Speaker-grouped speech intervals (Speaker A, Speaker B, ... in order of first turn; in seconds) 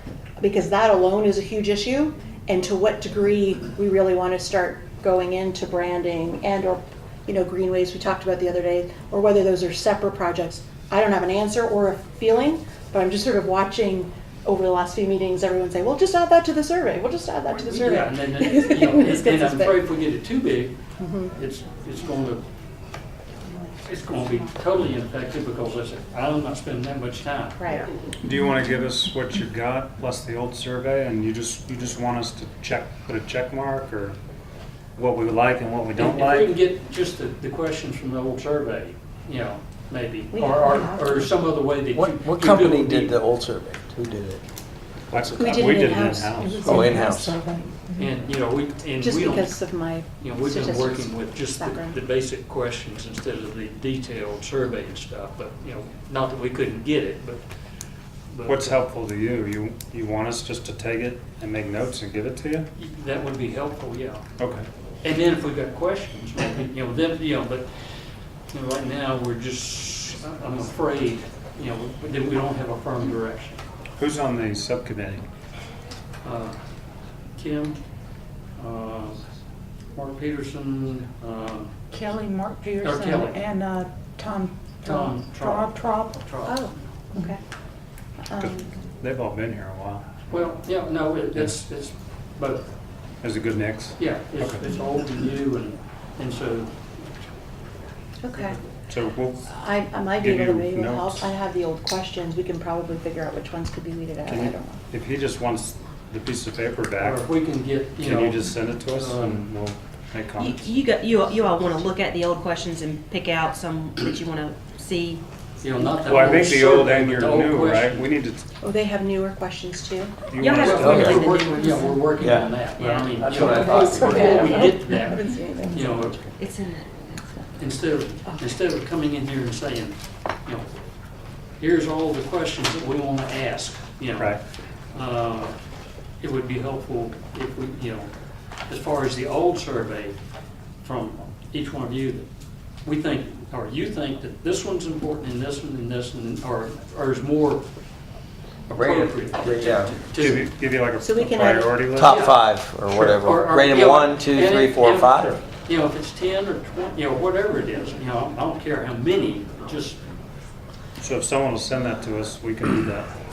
Speaker A: 0.4-19.8, 21.0-21.3, 27.6-27.9, 40.3-41.3, 45.4-47.0, 49.0-52.0, 86.5-87.4, 88.2-88.7, 98.2-98.6, 99.4-104.8, 118.6-120.1, 123.4-126.2, 151.0-151.8
Speaker B: 17.7-20.8, 21.3-22.4, 23.8-27.8, 36.0-43.1, 48.0-49.6, 50.2-57.4, 58.3-58.8, 62.8-64.2, 65.0-67.9, 68.5-73.6, 76.2-76.6, 77.4-77.8, 78.6-79.2, 79.9-81.7, 82.8-83.4, 84.8-86.7, 90.3-92.7, 94.0-96.7, 107.0-109.4, 115.6-118.1, 120.6-126.2, 127.6-130.7, 131.6-134.4, 134.9-135.6, 136.2-138.1, 138.7-140.2, 140.8-142.3, 142.8-147.7, 148.7-150.5, 152.1-160.0
Speaker C: 28.2-34.2, 35.0-36.5, 45.1-46.6, 58.4-62.7, 74.0-75.2, 88.4-90.0, 93.2-94.7, 98.9-101.3, 104.3-107.2, 107.9-110.7, 115.9-118.4, 120.3-121.1, 150.2-152.2, 161.0-163.1
Speaker D: 41.9-44.4, 46.6-47.4, 120.8-121.2, 122.2-122.6, 123.2-124.8, 148.7-150.0, 151.9-155.4
Speaker E: 46.7-47.1, 81.9-86.1
Speaker F: 110.4-115.2, 120.4-122.0, 122.8-123.3, 126.4-127.3